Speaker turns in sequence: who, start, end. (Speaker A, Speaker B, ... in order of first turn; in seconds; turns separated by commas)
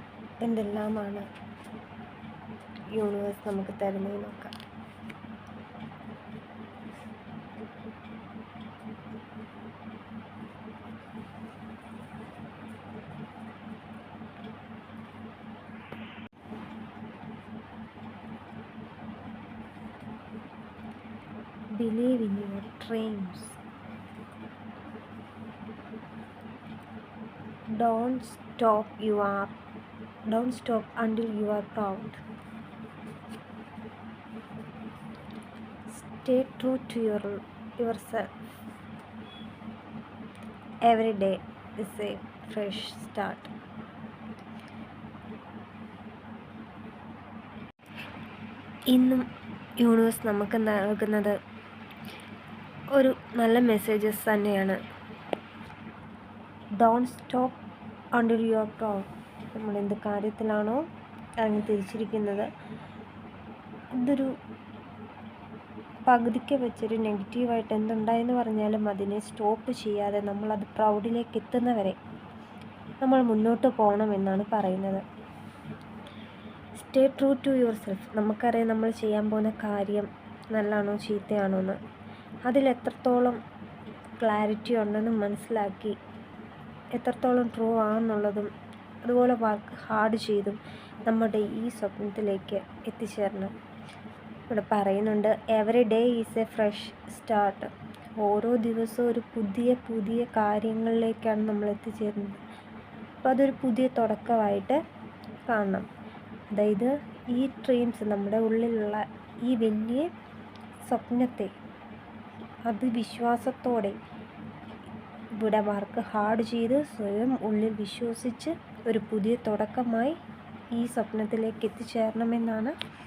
Speaker A: 0.4-1.2, Speaker A: 2.9-4.5, Speaker A: 21.8-23.6, Speaker A: 27.8-29.5, Speaker A: 30.3-32.2, Speaker A: 35.9-38.3, Speaker A: 40.9-43.5, Speaker A: 48.9-49.2, Speaker A: 49.8-51.4, Speaker A: 52.9-54.8, Speaker A: 56.8-57.6, Speaker A: 58.1-60.8, Speaker A: 61.4-62.5, Speaker A: 64.0-64.3, Speaker A: 66.1-72.0, Speaker A: 73.0-75.0, Speaker A: 76.8-81.8, Speaker A: 82.5-83.4, Speaker A: 84.2-86.0, Speaker A: 86.9-88.5, Speaker A: 89.0-93.5, Speaker A: 94.5-102.4, Speaker A: 103.2-104.8, Speaker A: 105.5-105.9, Speaker A: 106.5-110.1, Speaker A: 110.9-111.5, Speaker A: 112.7-114.0, Speaker A: 115.3-120.2, Speaker A: 120.7-122.7